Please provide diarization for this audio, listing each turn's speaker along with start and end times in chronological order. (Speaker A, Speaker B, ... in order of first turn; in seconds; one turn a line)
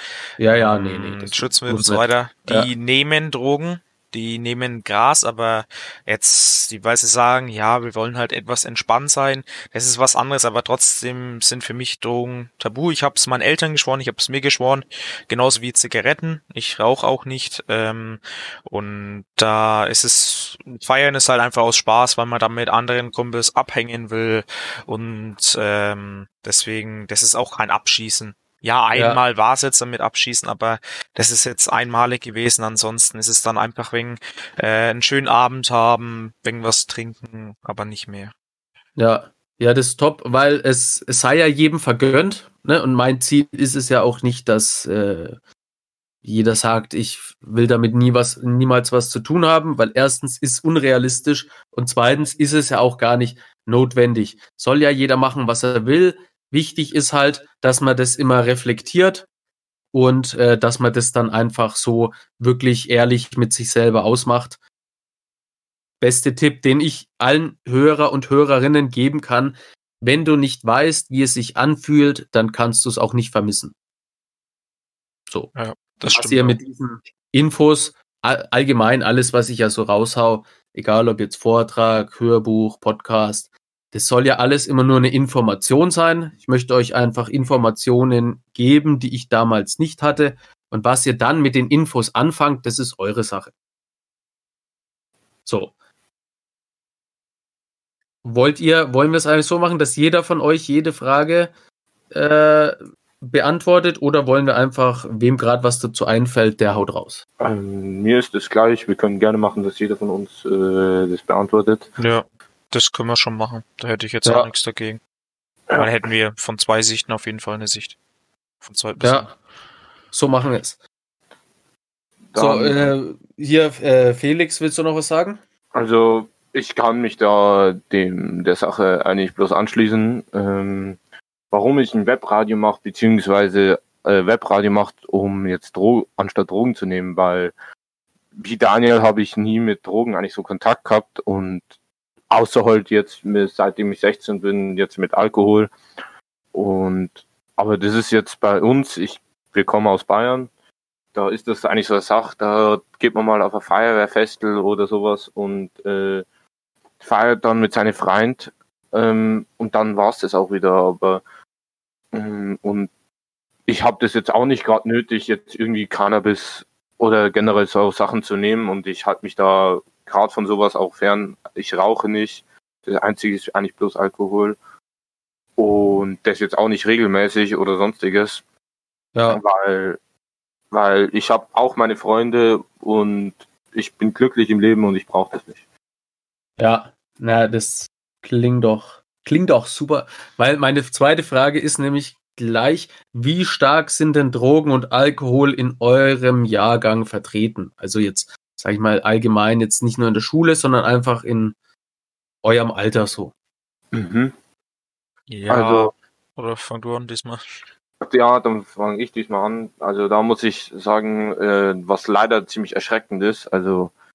Speaker A: 0.4-2.7
Speaker B: 0.4-38.3
Speaker A: 28.9-29.2
Speaker A: 39.0-45.4
Speaker A: 46.2-59.3
Speaker A: 59.9-64.6
Speaker A: 66.0-73.8
Speaker B: 75.5-76.6
Speaker A: 76.1-93.5
Speaker A: 95.5-95.7
Speaker A: 98.2-101.5
Speaker A: 102.1-107.2
Speaker C: 107.4-111.9
Speaker B: 112.0-115.0
Speaker B: 115.8-118.0
Speaker B: 118.6-119.3
Speaker A: 119.0-119.3
Speaker A: 120.1-120.8
Speaker C: 122.3-122.8
Speaker A: 122.4-125.4
Speaker C: 125.7-131.0
Speaker C: 131.5-137.5
Speaker C: 138.4-141.6
Speaker C: 142.3-145.7
Speaker C: 146.5-150.5
Speaker C: 151.1-156.2
Speaker C: 157.0-161.2
Speaker C: 162.1-162.9
Speaker C: 163.7-174.6
Speaker C: 175.6-178.4
Speaker A: 179.2-179.4
Speaker C: 179.3-180.0
Speaker C: 180.7-185.6
Speaker A: 186.6-201.6
Speaker A: 202.4-203.3
Speaker C: 203.9-204.3
Speaker B: 205.3-207.4
Speaker C: 205.5-205.9
Speaker C: 208.0-213.9